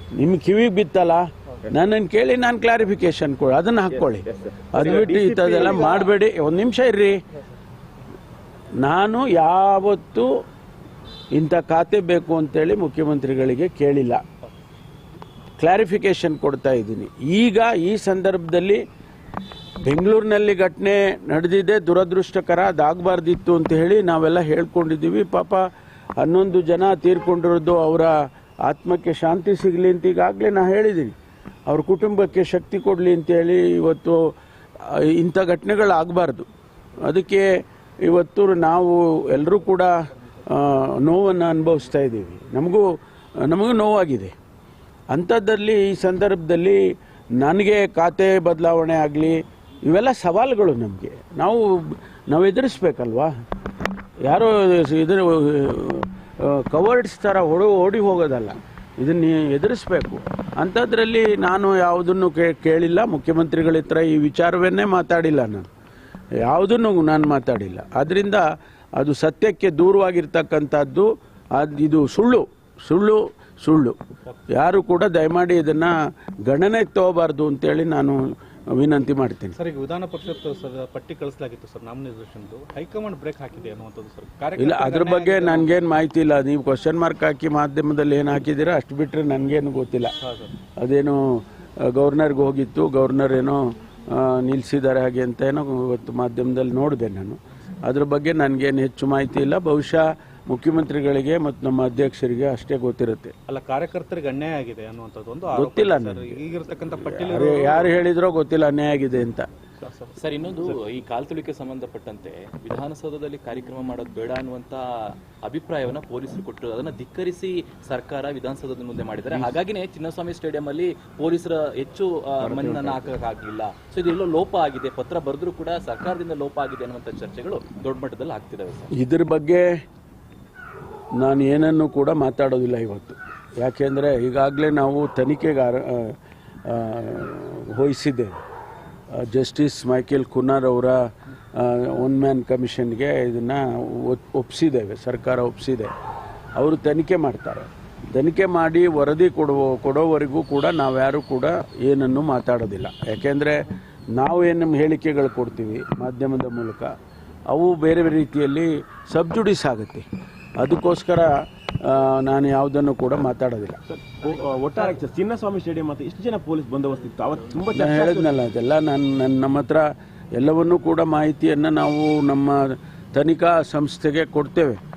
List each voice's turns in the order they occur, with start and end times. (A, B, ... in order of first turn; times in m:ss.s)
0:00.2-0:07.2 A
0:03.9-0:05.8 B
0:05.6-0:06.1 C
0:08.8-0:10.3 A
0:11.3-0:14.2 A
0:15.6-0:18.8 A
0:19.8-0:25.6 A
0:26.2-0:31.2 A
0:31.7-0:36.5 A
0:37.0-0:37.5 A
0:38.1-0:39.9 A
0:40.5-0:42.9 A
0:43.5-0:44.3 A
0:45.1-0:46.8 A
0:47.4-0:53.3 A
0:54.2-1:05.7 A
1:06.4-1:08.4 A
1:09.0-1:14.0 A
1:14.5-1:15.9 A
1:16.5-1:18.2 A
1:18.8-1:19.6 A
1:19.6-1:25.8 C
1:24.6-1:30.2 A
1:30.2-1:30.5 C
1:30.8-1:43.3 A
1:43.5-1:48.0 C
1:45.5-1:46.4 A
1:47.0-1:49.5 A
1:49.8-1:50.8 C
1:50.2-2:08.9 D
2:02.5-2:03.0 A
2:08.9-2:09.7 A
2:11.2-2:18.4 A
2:19.2-2:21.0 A
2:21.6-2:25.9 A
2:26.6-2:33.6 A
2:34.1-2:36.9 A
2:37.5-2:40.1 A
2:40.6-2:43.8 A
2:43.9-2:48.5 B
2:47.7-2:54.8 A